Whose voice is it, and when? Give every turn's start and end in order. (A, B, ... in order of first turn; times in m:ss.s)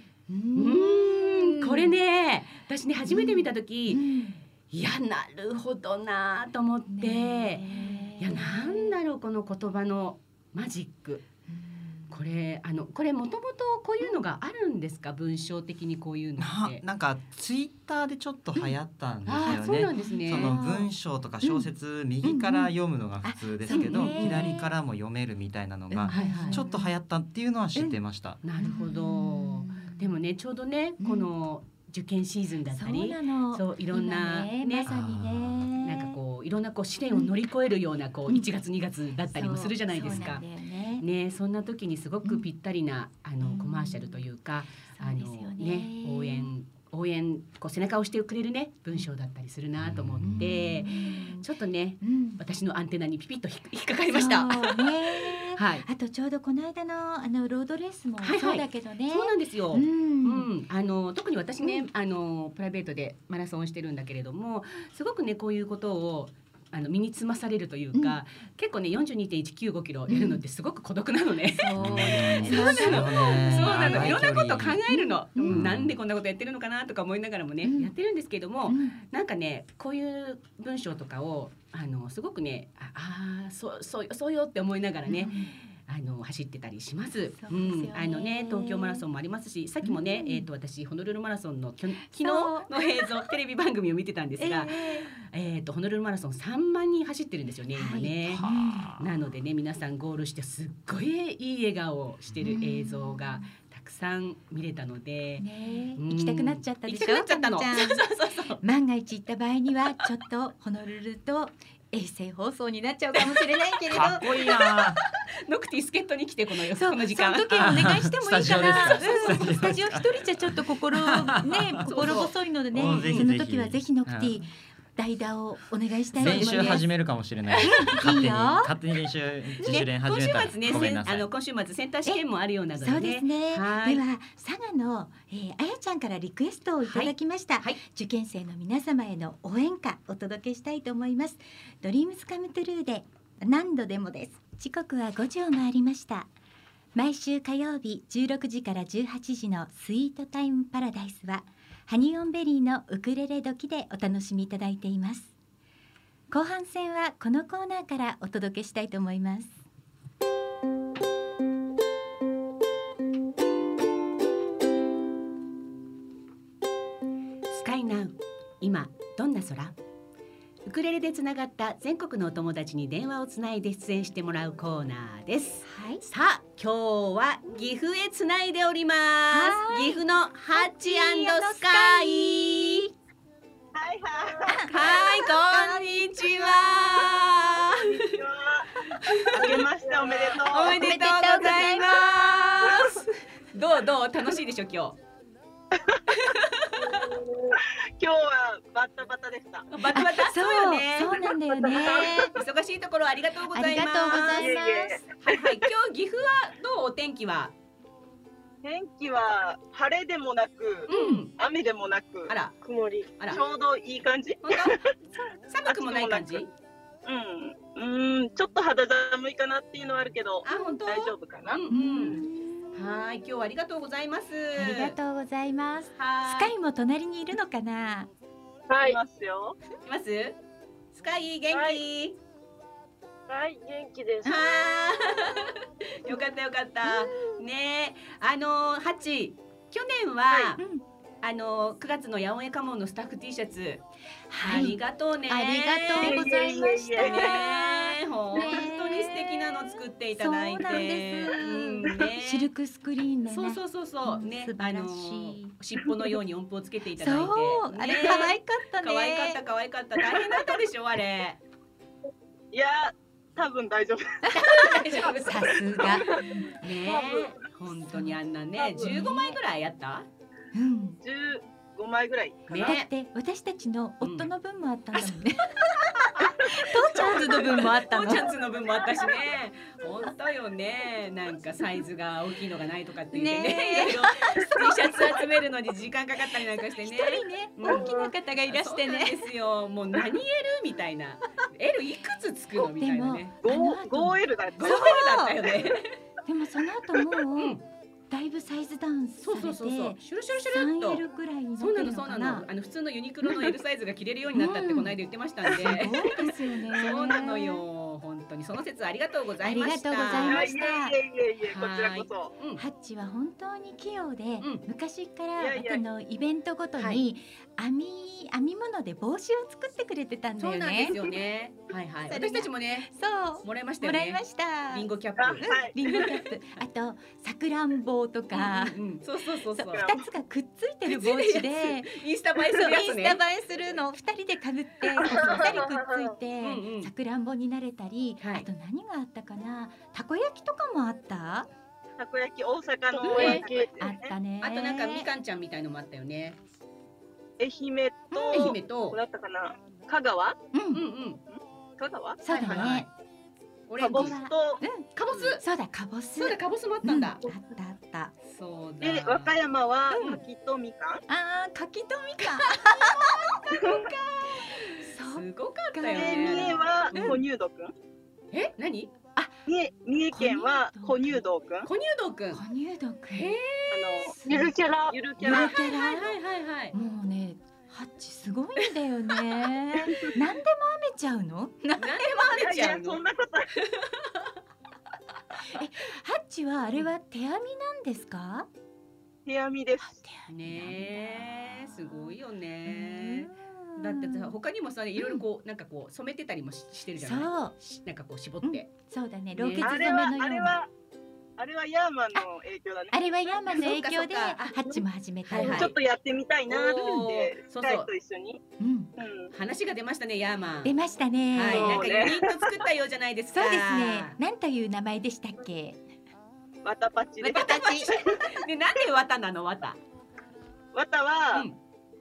0:00.3-0:02.0 A
0:00.6-0:04.0 B
0:03.1-0:04.4 A
0:04.7-0:11.2 B
0:06.9-0:08.9 A
0:11.5-0:12.1 A
0:12.1-0:16.8 B
0:16.4-0:28.4 C
0:19.2-0:20.6 B
0:19.9-0:20.9 A
0:22.2-0:22.7 A
0:23.2-0:24.7 A
0:23.7-0:24.5 B
0:25.9-0:26.9 A
0:26.1-0:26.6 B
0:28.4-0:34.9 B
0:28.6-0:30.0 A
0:31.0-0:31.3 A
0:32.7-0:36.2 A
0:34.9-0:35.7 C
0:35.8-0:40.4 B
0:39.3-0:41.0 A
0:41.0-0:55.9 B
0:43.4-0:44.2 A
0:45.0-0:46.5 A
0:49.8-0:50.4 C
0:50.2-0:51.4 A
0:52.0-0:52.4 A
0:54.1-1:00.5 A
0:58.2-1:38.4 B
1:10.1-1:10.4 A
1:11.6-1:14.2 A
1:11.8-1:14.8 C
1:14.9-1:15.6 A
1:15.5-1:15.9 C
1:17.6-1:17.9 A
1:18.7-1:19.0 A
1:25.1-1:25.5 A
1:27.4-1:29.0 A
1:29.8-1:30.4 A
1:32.1-1:32.8 A
1:34.4-1:35.1 A
1:37.7-1:38.9 A
1:38.3-1:39.0 C
1:39.0-1:45.4 B
1:42.4-1:43.5 A
1:45.4-1:54.3 A
1:46.0-1:48.6 B
1:53.2-1:57.8 B
1:53.9-1:55.0 C
1:56.8-2:06.8 A
1:57.6-2:01.9 C
1:59.0-1:59.3 B
2:01.8-2:02.3 B
2:02.7-2:04.4 C
2:03.0-2:03.3 B
2:06.1-2:11.3 C
2:06.2-2:06.8 B
2:07.6-2:07.9 B
2:07.6-2:08.7 A
2:09.6-2:14.0 B
2:12.8-2:26.3 A
2:16.8-2:17.8 B
2:26.9-2:35.3 A
2:36.3-2:39.6 A
2:47.5-2:49.8 B
2:50.6-3:02.9 B
2:55.6-2:56.0 A
2:59.3-3:02.5 A
3:03.7-3:04.6 D
3:04.5-3:06.7 A
3:04.7-3:08.1 B
3:08.0-3:08.7 D
3:09.0-3:09.4 B
3:09.3-3:10.8 D
3:09.4-3:10.2 E
3:10.4-3:15.0 B
3:10.6-3:12.7 A
3:16.1-3:16.7 B
3:16.8-3:17.6 E
3:18.0-3:19.6 D
3:19.7-3:24.5 B
3:19.9-3:22.3 A
3:23.5-3:25.0 A
3:24.4-3:25.0 D
3:25.2-3:27.5 B
3:28.6-3:32.3 D
3:30.9-3:31.3 B
3:30.9-3:31.2 A
3:32.3-3:32.5 B
3:32.6-3:33.2 E
3:33.3-3:34.8 D
3:34.4-3:34.8 B
3:35.5-3:36.5 B
3:35.6-3:36.4 D
3:37.0-3:41.6 D
3:40.4-3:42.2 B
3:41.7-3:42.7 A
3:42.7-3:45.0 B
3:44.6-3:48.1 A
3:46.0-3:46.5 B
3:48.7-3:49.0 E
3:48.8-3:49.5 D
3:49.8-3:50.4 B
3:50.9-3:52.2 B
3:51.5-3:51.8 E
3:53.3-3:54.7 E
3:54.2-4:00.6 B
4:00.6-4:00.8 A
4:01.2-4:03.8 B
4:04.3-4:04.7 A
4:04.4-4:06.2 B
4:05.3-4:09.5 A
4:06.0-4:07.1 D
4:07.0-4:12.5 B
4:10.2-4:15.5 A
4:13.3-4:21.4 B
4:17.0-4:19.4 A
4:22.5-4:24.8 D
4:24.2-4:26.5 A
4:24.4-4:25.6 B
4:26.6-4:30.1 B
4:26.8-4:27.4 E
4:28.8-4:29.4 A
4:30.5-4:31.0 A
4:31.0-4:32.8 D
4:32.5-4:32.9 B
4:32.6-4:38.3 A
4:34.0-4:34.3 B
4:36.8-4:53.4 B
4:43.1-4:45.2 A
4:46.8-4:49.3 A
4:52.6-4:55.4 A
4:53.4-4:54.8 D
4:54.6-4:55.8 B
4:56.2-4:57.6 A
4:57.4-4:57.6 B
4:58.1-5:02.4 A
4:59.2-5:01.0 B
5:01.6-5:06.2 B
5:04.3-5:05.0 A
5:05.5-5:07.6 A
5:06.7-5:10.5 B
5:09.4-5:10.9 A
5:10.2-5:12.3 D
5:11.5-5:12.6 B
5:12.6-5:21.0 A
5:15.4-5:15.8 D
5:20.4-5:22.9 B
5:22.1-5:24.9 A
5:23.4-5:25.5 B
5:25.2-5:26.0 D
5:25.4-5:28.8 A
5:28.3-5:29.9 B
5:29.6-5:41.5 A
5:30.8-5:33.2 B
5:35.2-5:36.1 E
5:36.4-5:36.9 B
5:38.2-5:38.5 B
5:42.0-5:43.7 D
5:42.9-5:43.7 E
5:43.0-5:45.1 A
5:43.1-5:43.4 B
5:44.4-5:46.4 B
5:47.4-5:50.4 D
5:48.1-5:48.5 A
5:48.3-5:49.0 B
5:50.5-5:50.8 A
5:50.7-5:51.2 B
5:51.3-5:52.2 D
5:52.2-5:52.9 A
5:52.2-5:52.9 B
5:53.7-5:54.2 B
5:53.8-5:54.9 A
5:53.8-5:54.6 D
5:55.0-5:55.4 B
5:55.4-5:58.1 A
5:56.2-5:57.2 B
5:58.2-5:59.3 B
5:58.8-6:01.0 D
5:59.9-6:00.2 B
6:01.1-6:03.4 A
6:02.4-6:07.2 B
6:03.6-6:03.8 D
6:04.8-6:07.2 A
6:06.0-6:07.7 D
6:08.3-6:08.9 B
6:09.5-6:11.7 D
6:10.1-6:11.2 A
6:11.6-6:12.4 B
6:12.3-6:13.3 A
6:13.1-6:13.8 B
6:13.7-6:14.1 D
6:14.0-6:14.5 A
6:14.2-6:15.2 E
6:14.9-6:15.5 D
6:15.2-6:16.1 A
6:15.2-6:16.7 B
6:16.7-6:22.3 A
6:21.8-6:23.0 B
6:22.3-6:23.5 D
6:25.4-6:28.5 A
6:29.2-6:30.0 D
6:30.0-6:32.1 A
6:30.3-6:38.7 B
6:32.7-6:34.3 A
6:37.0-6:37.5 A
6:38.4-6:40.6 A
6:39.4-6:40.1 B
6:39.6-6:40.7 D
6:41.4-6:43.0 D
6:42.9-6:45.7 A
6:43.5-6:44.6 B
6:45.3-6:45.7 B
6:45.4-6:48.4 D
6:46.5-6:47.9 B
6:48.6-6:48.9 A
6:49.0-6:49.3 D
6:49.3-6:50.7 B
6:50.6-6:52.0 A
6:51.3-6:54.1 B
6:51.5-6:52.6 D
6:53.3-6:55.8 A
6:56.6-6:58.0 D
6:57.2-6:59.8 B
6:57.3-6:57.9 A
7:00.7-7:01.5 D